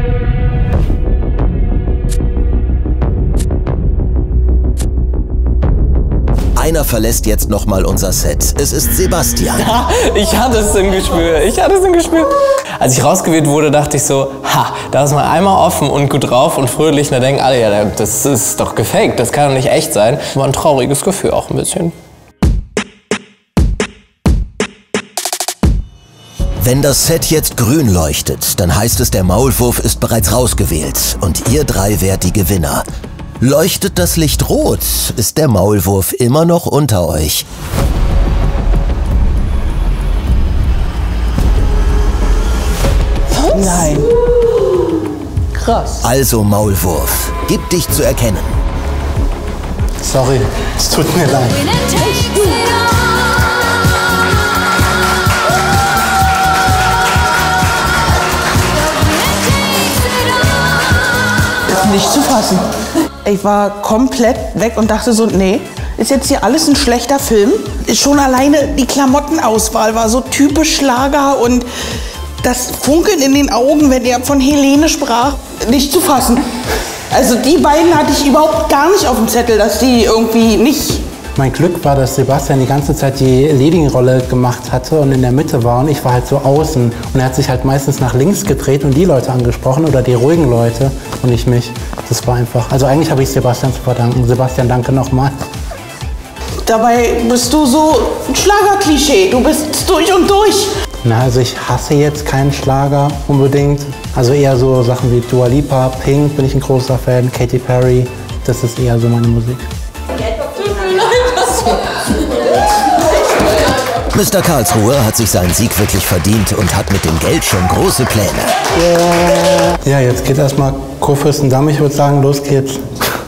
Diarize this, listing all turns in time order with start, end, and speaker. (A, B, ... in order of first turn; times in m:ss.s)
0:06.6-0:09.7 A
0:09.6-0:21.9 B
0:26.6-0:32.8 A
0:33.4-0:37.4 A
0:43.5-0:44.1 C
0:45.5-0:46.0 C
0:46.0-0:48.5 A
0:50.0-0:51.6 D
1:01.7-1:02.6 C
1:03.2-1:11.6 C
1:12.4-1:16.4 C
1:17.1-1:21.0 C
1:21.4-1:35.3 D
1:36.6-1:40.7 C
1:41.0-1:49.6 D
1:54.1-1:58.5 A
1:58.9-2:02.8 D